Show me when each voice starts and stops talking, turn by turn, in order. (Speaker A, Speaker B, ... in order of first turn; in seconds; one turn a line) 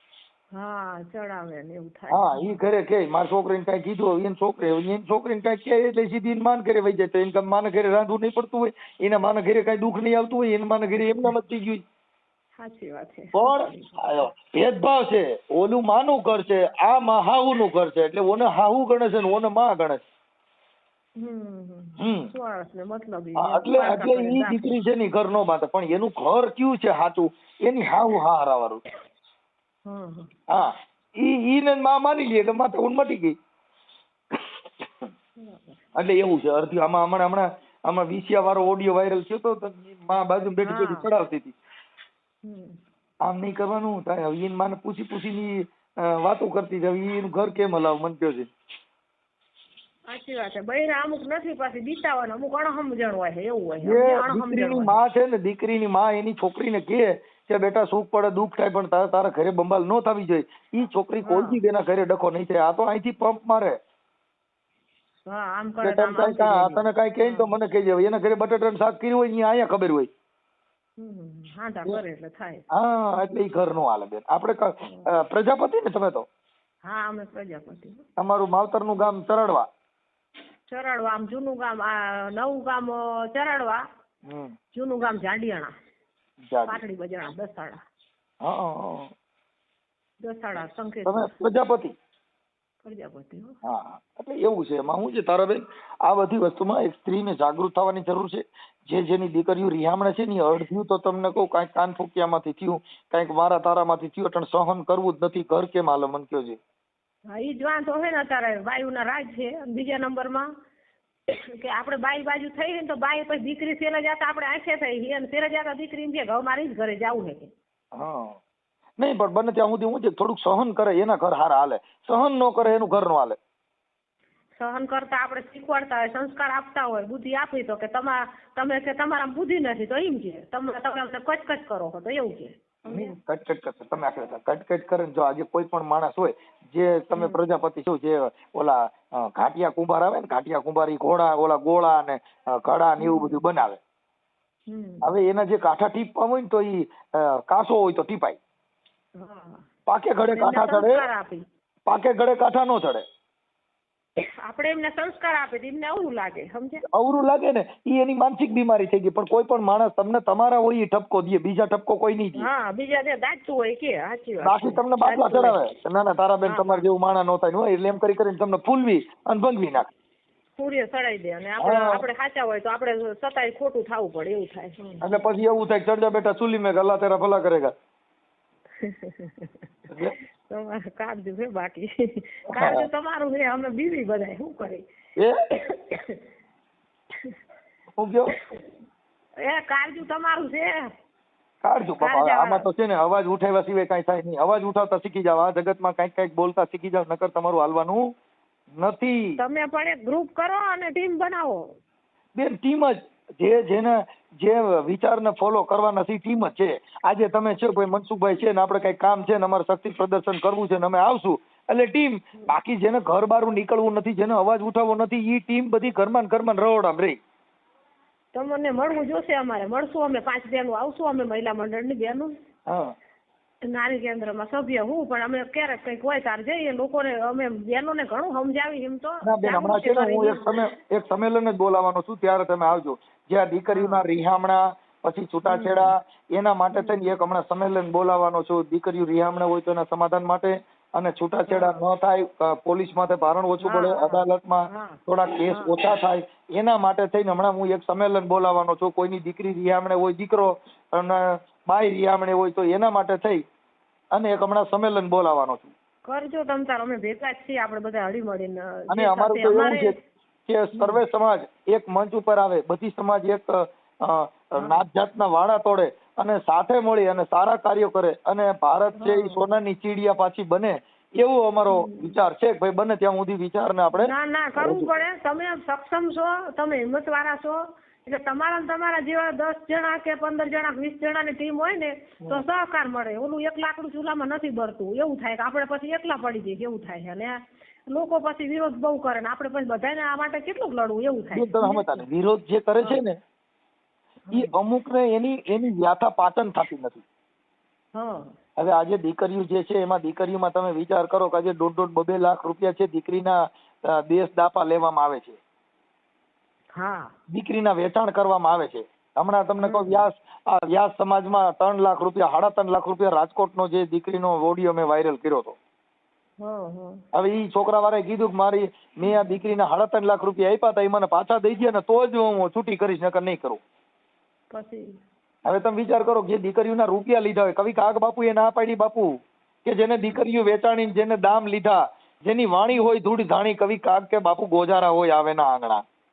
Speaker A: 0.5-2.6
Speaker B: 2.1-11.8
Speaker A: 12.6-14.1
Speaker B: 13.3-20.0
Speaker A: 21.2-24.7
Speaker B: 22.0-22.3
Speaker B: 23.4-28.8
Speaker A: 29.9-30.3
Speaker B: 30.5-33.4
Speaker B: 34.3-35.1
Speaker A: 35.4-35.8
Speaker B: 35.9-41.5
Speaker A: 40.6-41.1
Speaker A: 42.4-42.8
Speaker B: 43.2-48.5
Speaker A: 50.1-55.0
Speaker B: 53.8-63.8
Speaker A: 61.2-61.6
Speaker A: 65.3-67.5
Speaker B: 65.8-70.1
Speaker A: 71.0-72.6
Speaker B: 72.7-76.2
Speaker A: 74.8-75.1
Speaker A: 76.8-78.0
Speaker B: 78.2-79.7
Speaker A: 80.7-83.8
Speaker B: 84.2-84.5
Speaker A: 84.7-85.7
Speaker B: 86.4-86.8
Speaker A: 86.7-87.8
Speaker B: 88.4-89.1
Speaker A: 90.2-91.3
Speaker B: 91.0-92.0
Speaker A: 92.8-93.6
Speaker B: 93.6-106.6
Speaker A: 107.3-110.5
Speaker A: 111.3-117.5
Speaker B: 117.9-118.4
Speaker B: 119.0-123.4
Speaker A: 122.6-122.9
Speaker A: 124.5-133.2
Speaker B: 132.9-143.8
Speaker A: 137.2-137.4
Speaker A: 143.0-143.4
Speaker A: 144.7-145.1
Speaker B: 145.0-148.4
Speaker A: 149.2-149.6
Speaker B: 149.9-151.0
Speaker A: 150.3-151.4
Speaker B: 151.9-153.0
Speaker A: 154.2-156.8
Speaker B: 156.9-162.5
Speaker A: 162.3-165.6
Speaker B: 164.4-169.9
Speaker A: 166.4-166.8
Speaker A: 170.6-175.0
Speaker B: 171.6-172.0
Speaker B: 175.0-177.7
Speaker A: 178.8-179.5
Speaker A: 180.5-184.8
Speaker B: 182.5-182.8
Speaker A: 185.5-186.2
Speaker B: 188.0-188.3
Speaker A: 189.4-190.9
Speaker B: 191.6-198.1
Speaker A: 192.0-192.7
Speaker B: 198.7-199.4
Speaker A: 199.4-201.7
Speaker B: 202.3-217.2
Speaker A: 218.3-222.3
Speaker B: 222.7-222.9
Speaker A: 223.6-230.4
Speaker B: 229.2-253.4
Speaker A: 233.7-234.0
Speaker A: 235.5-235.9
Speaker A: 236.8-237.2
Speaker A: 241.5-241.8
Speaker A: 243.6-245.8
Speaker B: 254.1-255.7
Speaker A: 256.1-259.9
Speaker B: 258.9-259.9
Speaker B: 260.5-274.9
Speaker A: 260.7-261.0
Speaker A: 269.0-269.4
Speaker A: 271.7-272.2
Speaker A: 274.0-292.1
Speaker B: 291.3-293.2
Speaker A: 294.3-294.6
Speaker B: 294.3-297.0
Speaker A: 297.9-298.3
Speaker B: 298.6-305.4
Speaker A: 306.8-307.1
Speaker B: 307.3-315.6
Speaker A: 309.6-310.0
Speaker A: 316.4-317.0
Speaker B: 317.1-323.6
Speaker A: 319.1-319.3
Speaker A: 324.5-324.9
Speaker B: 325.4-335.8